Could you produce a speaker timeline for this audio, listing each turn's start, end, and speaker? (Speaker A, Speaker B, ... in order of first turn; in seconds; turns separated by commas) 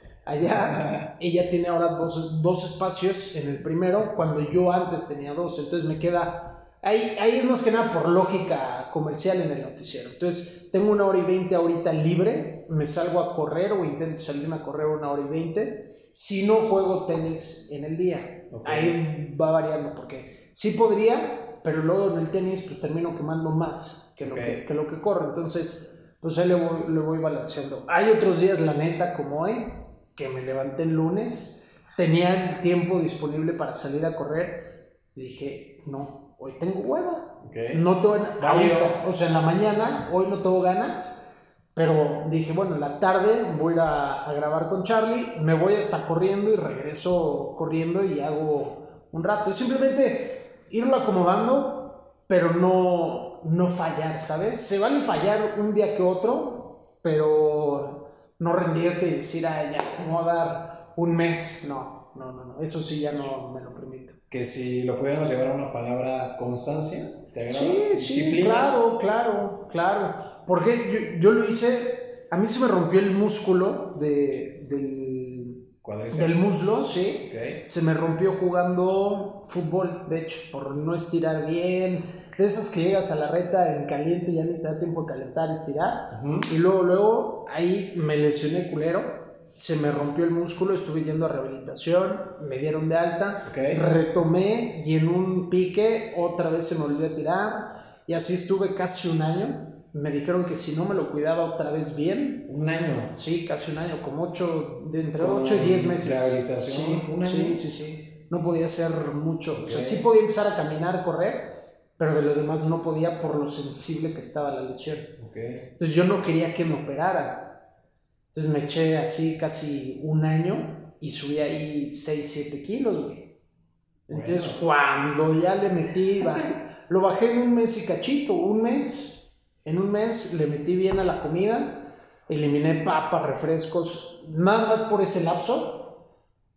Speaker A: 0.2-64.2, Speaker B: 0.7-1.0, Speaker B: 18.5-19.0, Speaker B: 24.2-24.6, Speaker B: 37.4-37.8, Speaker B: 38.4-39.0, Speaker B: 64.3-68.8, Speaker A: 67.5-102.5, Speaker B: 75.8-76.5, Speaker B: 77.2-77.6, Speaker B: 86.1-86.5, Speaker B: 93.4-93.8, Speaker B: 102.5-103.1, Speaker A: 103.1-115.2, Speaker B: 105.2-107.6, Speaker B: 109.5-110.0, Speaker B: 115.2-115.7, Speaker A: 115.8-117.6, Speaker A: 118.3-123.3, Speaker A: 124.1-136.0, Speaker B: 124.1-124.8